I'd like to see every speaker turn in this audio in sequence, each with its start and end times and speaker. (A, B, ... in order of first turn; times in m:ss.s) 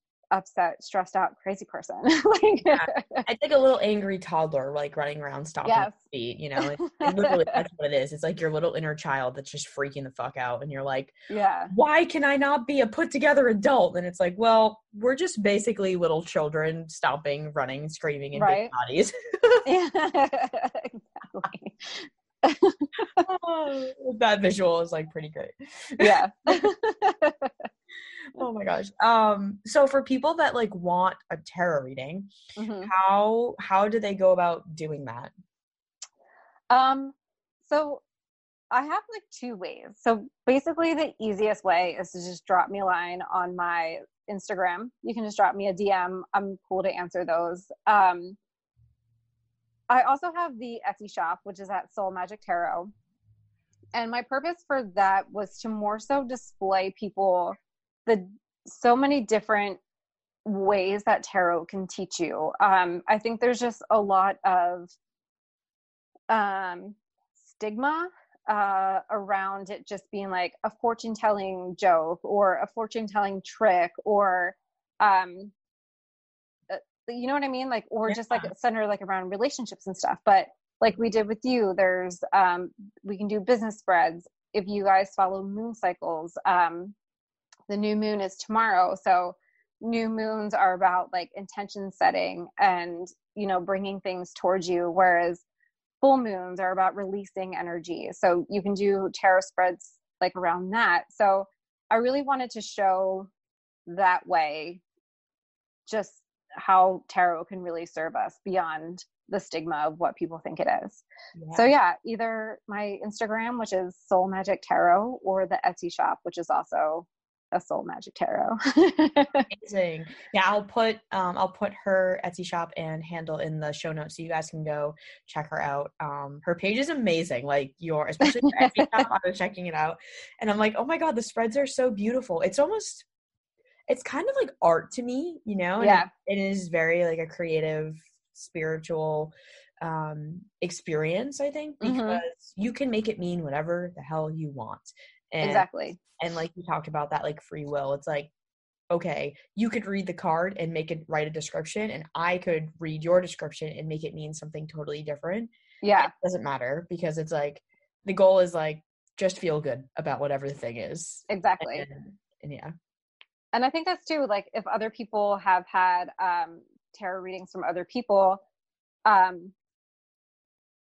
0:00.3-0:03.2 A
0:02.7-0:11.1 B
0:05.6-0:06.0 A
0:06.6-0:07.6 A
0:11.3-0:11.7 A
0:11.7-0:19.6 B
0:18.3-0:18.7 A
0:19.7-0:23.3 A
0:23.3-0:26.7 B
0:26.0-0:27.7 A
0:28.4-0:32.3 B
0:32.6-0:32.9 A
0:32.8-0:35.3 B
0:36.7-0:38.0 A
0:38.7-0:48.4 A
0:49.9-0:52.9 A
0:54.0-0:59.8 A
1:00.4-1:04.9 A
1:06.3-1:15.5 A
1:16.7-1:27.0 A
1:18.1-1:18.5 B
1:27.7-1:35.4 A
1:36.0-1:43.3 A
1:43.9-1:44.8 A
1:45.9-1:51.0 A
1:51.4-1:51.7 B
1:51.5-1:59.5 A
1:59.5-2:13.1 B
2:08.2-2:09.1 A
2:13.9-2:25.7 B
2:15.8-2:16.1 A
2:21.8-2:22.2 A
2:25.4-2:26.0 A
2:26.2-2:28.3 B
2:28.9-2:42.7 B
2:35.8-2:36.1 A
2:41.3-2:41.9 A
2:43.5-2:48.4 A
2:49.1-2:49.5 A